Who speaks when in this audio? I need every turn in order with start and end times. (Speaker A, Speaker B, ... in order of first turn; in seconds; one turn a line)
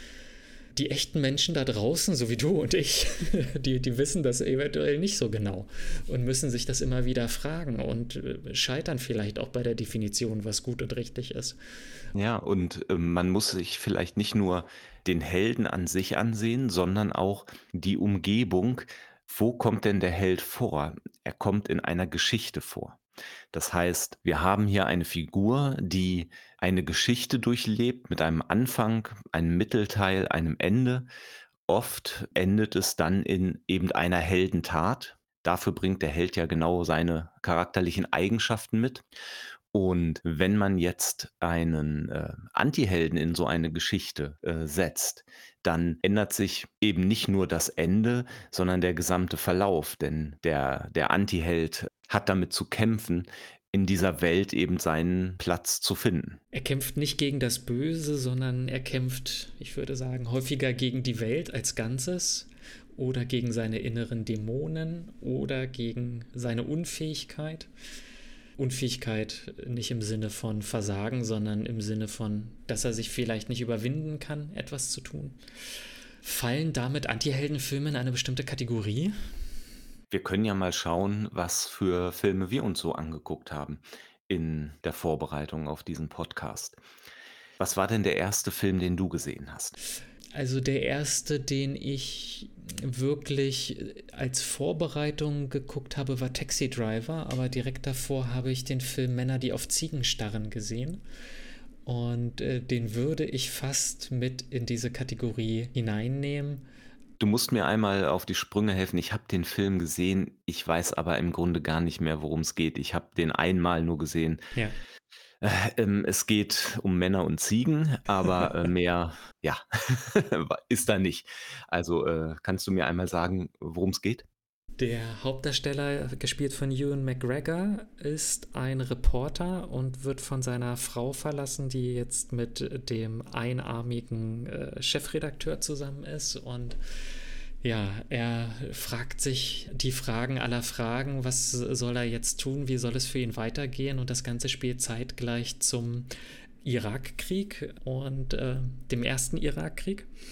Speaker A: 0.7-11.6
Speaker B: 12.1-23.0
Speaker B: 23.5-31.1
Speaker B: 31.7-39.0
Speaker B: 39.7-56.4
Speaker A: 56.5-67.7
Speaker A: 68.6-75.4
Speaker A: 76.2-79.1
Speaker B: 80.1-86.8
Speaker B: 87.6-89.8
Speaker A: 90.3-101.0
Speaker A: 101.8-106.6
Speaker B: 107.2-114.4
Speaker B: 115.4-124.2
Speaker A: 124.8-136.8
Speaker A: 137.6-146.1
Speaker A: 146.6-150.1